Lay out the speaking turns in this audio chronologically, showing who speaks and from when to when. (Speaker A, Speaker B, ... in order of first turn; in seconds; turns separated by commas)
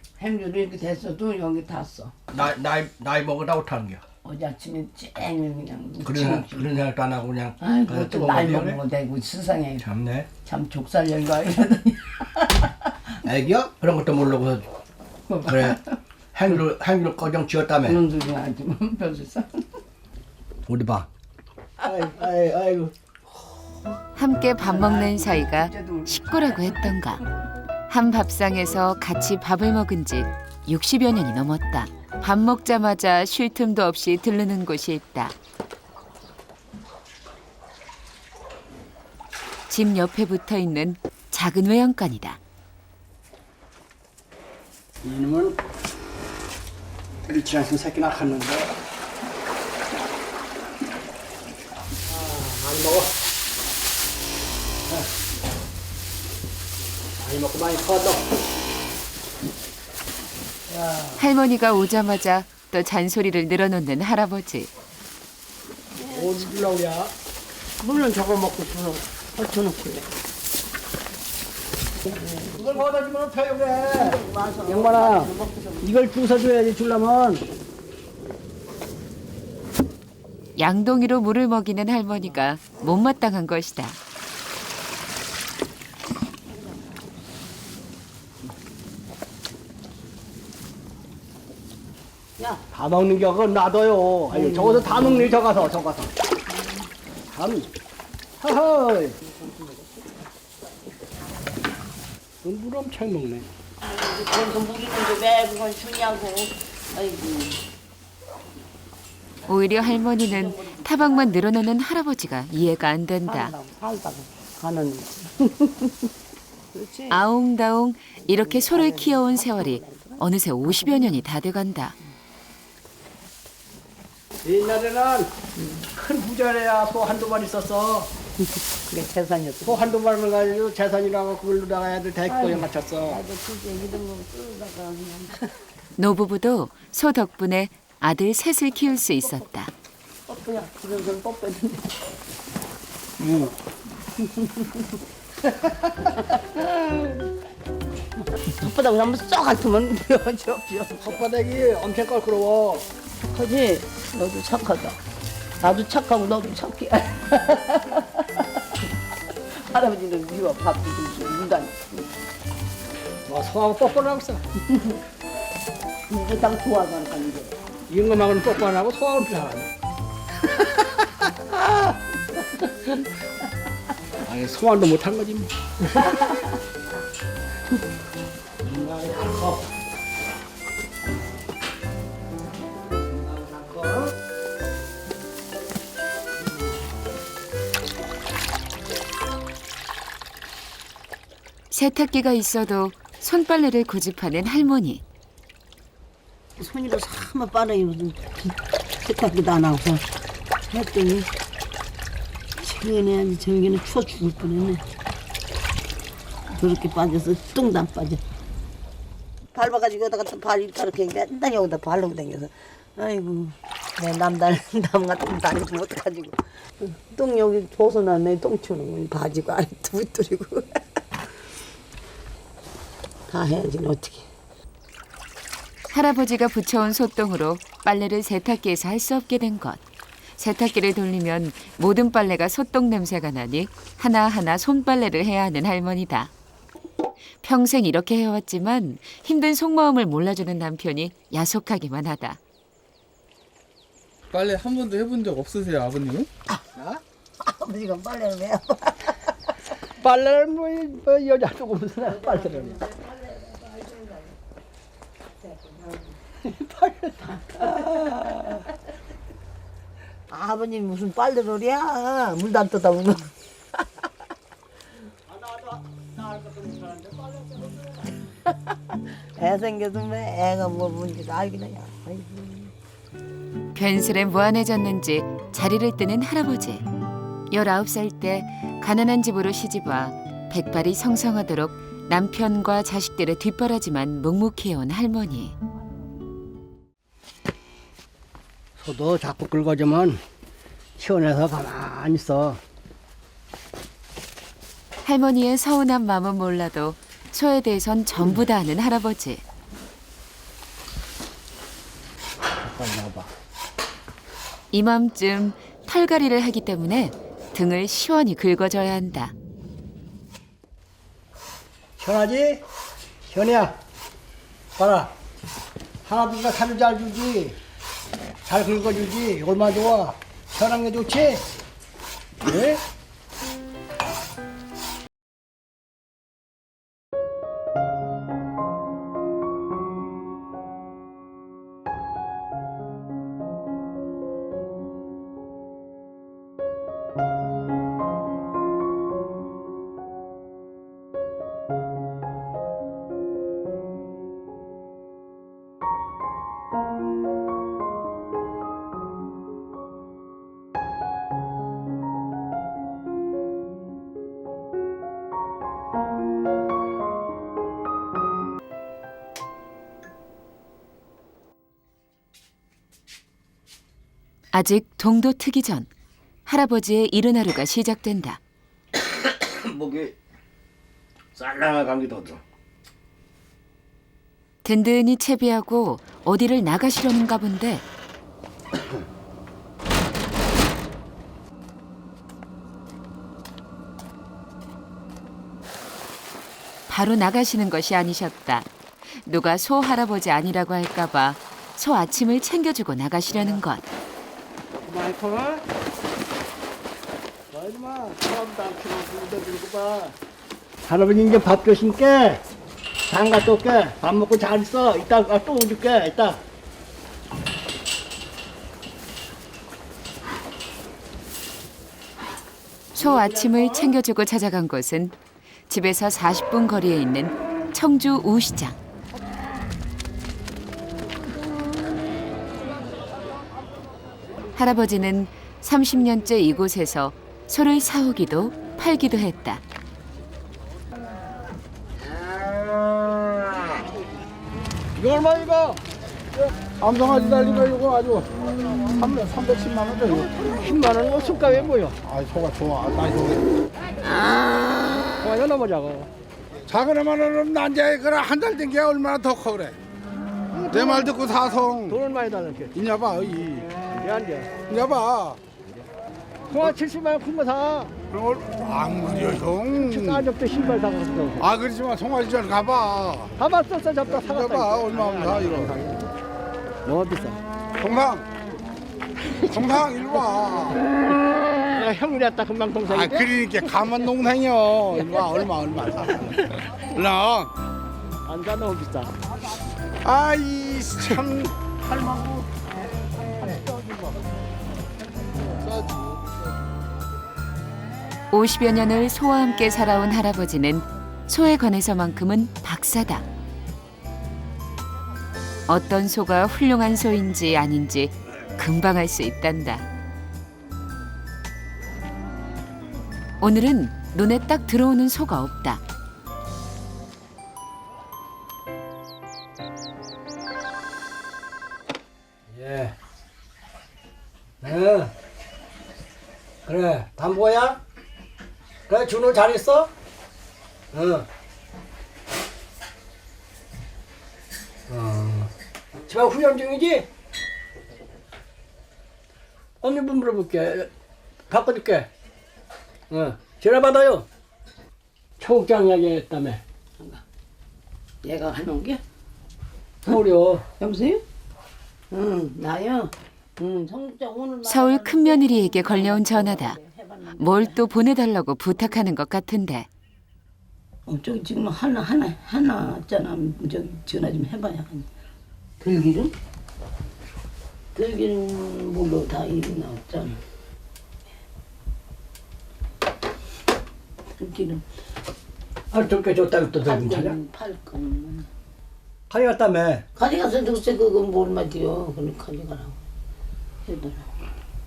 Speaker A: 0.2-2.1, Speaker B: 2.3-4.0, Speaker A: 4.2-6.7, Speaker B: 6.0-8.8, Speaker A: 7.6-9.9, Speaker B: 9.8-10.3, Speaker A: 10.4-12.9, Speaker B: 13.2-14.7, Speaker A: 15.3-15.8, Speaker B: 15.4-15.8, Speaker B: 16.3-18.0, Speaker A: 17.9-19.6, Speaker B: 20.7-21.1, Speaker B: 21.8-22.9, Speaker C: 24.1-27.2, Speaker A: 24.6-26.9, Speaker C: 27.9-35.4, Speaker C: 39.7-42.4, Speaker B: 45.0-45.6, Speaker B: 47.3-48.7, Speaker B: 52.0-53.1, Speaker B: 57.2-58.3, Speaker A: 60.7-61.3, Speaker C: 61.2-64.7, Speaker A: 66.0-66.7, Speaker B: 66.1-67.1, Speaker A: 67.8-70.1, Speaker A: 72.1-72.9, Speaker B: 72.2-77.5, Speaker A: 73.9-75.9, Speaker C: 80.6-84.0, Speaker A: 86.6-86.9, Speaker A: 92.4-92.6, Speaker B: 92.7-96.1, Speaker A: 94.3-95.4, Speaker A: 96.5-96.8, Speaker B: 97.3-97.7, Speaker B: 98.4-99.2, Speaker A: 99.2-100.1, Speaker B: 102.4-103.5, Speaker A: 103.8-107.6, Speaker C: 109.5-113.5, Speaker A: 110.3-111.5, Speaker A: 113.2-116.1, Speaker A: 116.7-117.2, Speaker C: 117.1-122.0, Speaker A: 118.2-121.2, Speaker B: 124.4-125.3, Speaker A: 125.6-125.9, Speaker B: 125.9-128.1, Speaker A: 128.4-129.8, Speaker B: 129.6-133.2, Speaker A: 132.2-135.5, Speaker C: 135.9-139.7, Speaker A: 140.3-142.0, Speaker B: 143.2-143.5, Speaker A: 144.2-144.9, Speaker A: 145.4-147.2, Speaker A: 148.4-151.2, Speaker B: 151.0-152.9, Speaker A: 153.3-155.0, Speaker A: 155.6-158.5, Speaker A: 159.5-162.1, Speaker B: 163.3-164.4, Speaker A: 166.1-167.6, Speaker B: 167.9-169.7, Speaker A: 172.6-172.9, Speaker B: 174.2-175.5, Speaker A: 176.0-176.5, Speaker B: 178.6-179.7, Speaker B: 183.1-184.1, Speaker C: 191.7-195.0, Speaker A: 196.6-200.0, Speaker A: 200.7-201.3, Speaker A: 202.6-204.8, Speaker A: 206.5-208.2, Speaker A: 209.5-220.8, Speaker A: 223.3-224.2, Speaker C: 225.9-229.8, Speaker C: 230.4-236.3, Speaker C: 237.4-242.4, Speaker D: 244.3-246.3, Speaker B: 246.7-247.0, Speaker A: 247.4-249.3, Speaker B: 250.0-252.8, Speaker A: 252.1-254.3, Speaker A: 255.5-258.6, Speaker A: 260.3-263.3, Speaker B: 265.3-268.2, Speaker A: 268.9-272.7, Speaker C: 273.7-276.8, Speaker C: 277.5-285.5, Speaker B: 288.8-290.2, Speaker B: 291.0-292.6, Speaker C: 295.0-299.4, Speaker B: 302.6-303.3, Speaker C: 304.7-309.3, Speaker B: 312.0-312.6, Speaker B: 313.3-313.8, Speaker B: 314.8-315.1, Speaker B: 316.0-317.6, Speaker B: 318.4-321.4, Speaker B: 322.4-322.8, Speaker C: 364.5-365.9, Speaker C: 366.4-368.4, Speaker B: 368.9-370.1, Speaker B: 371.3-372.4, Speaker C: 374.6-377.8, Speaker C: 386.9-388.7, Speaker C: 389.2-393.9, Speaker B: 393.3-393.6, Speaker B: 394.8-395.6, Speaker B: 397.5-400.1, Speaker B: 400.8-402.4, Speaker B: 403.1-406.4, Speaker C: 412.9-415.1, Speaker B: 413.0-413.9, Speaker C: 415.7-418.8, Speaker C: 424.5-429.6, Speaker B: 434.9-435.8, Speaker E: 436.8-438.3, Speaker E: 438.9-440.2, Speaker B: 440.1-442.0, Speaker E: 442.1-443.4, Speaker B: 445.2-446.1, Speaker E: 446.7-449.8, Speaker B: 450.5-451.2, Speaker E: 450.7-451.9, Speaker B: 451.9-452.8, Speaker E: 452.8-453.7, Speaker B: 453.7-454.6, Speaker E: 454.7-455.4, Speaker B: 456.5-457.9, Speaker E: 458.1-460.2, Speaker B: 459.1-461.5, Speaker E: 461.4-463.3, Speaker B: 463.4-466.1, Speaker E: 464.2-465.7, Speaker B: 466.8-467.4, Speaker E: 467.8-468.2, Speaker E: 469.5-470.8, Speaker B: 471.7-474.1, Speaker E: 472.9-477.5, Speaker B: 474.9-475.5, Speaker B: 478.2-479.1, Speaker E: 480.0-481.5, Speaker E: 482.1-482.4, Speaker B: 483.7-483.9, Speaker C: 488.3-493.2, Speaker C: 495.7-499.8, Speaker C: 503.4-505.8, Speaker B: 512.5-512.9, Speaker B: 514.6-515.1, Speaker B: 516.6-517.8, Speaker B: 518.9-519.9, Speaker B: 520.9-521.3, Speaker B: 524.9-525.5, Speaker B: 526.1-527.1, Speaker B: 529.8-530.9, Speaker B: 531.5-532.1, Speaker B: 533.1-534.3, Speaker B: 535.4-536.6, Speaker A: 538.2-539.0, Speaker B: 540.0-540.6, Speaker A: 540.8-541.2, Speaker A: 542.1-548.0, Speaker C: 544.6-546.8, Speaker C: 547.4-549.9, Speaker A: 551.1-555.1, Speaker A: 555.8-556.3, Speaker A: 557.9-560.4, Speaker A: 564.4-564.8, Speaker B: 565.9-567.4, Speaker A: 566.8-568.5, Speaker B: 569.3-570.0, Speaker A: 570.1-573.0, Speaker A: 573.9-574.3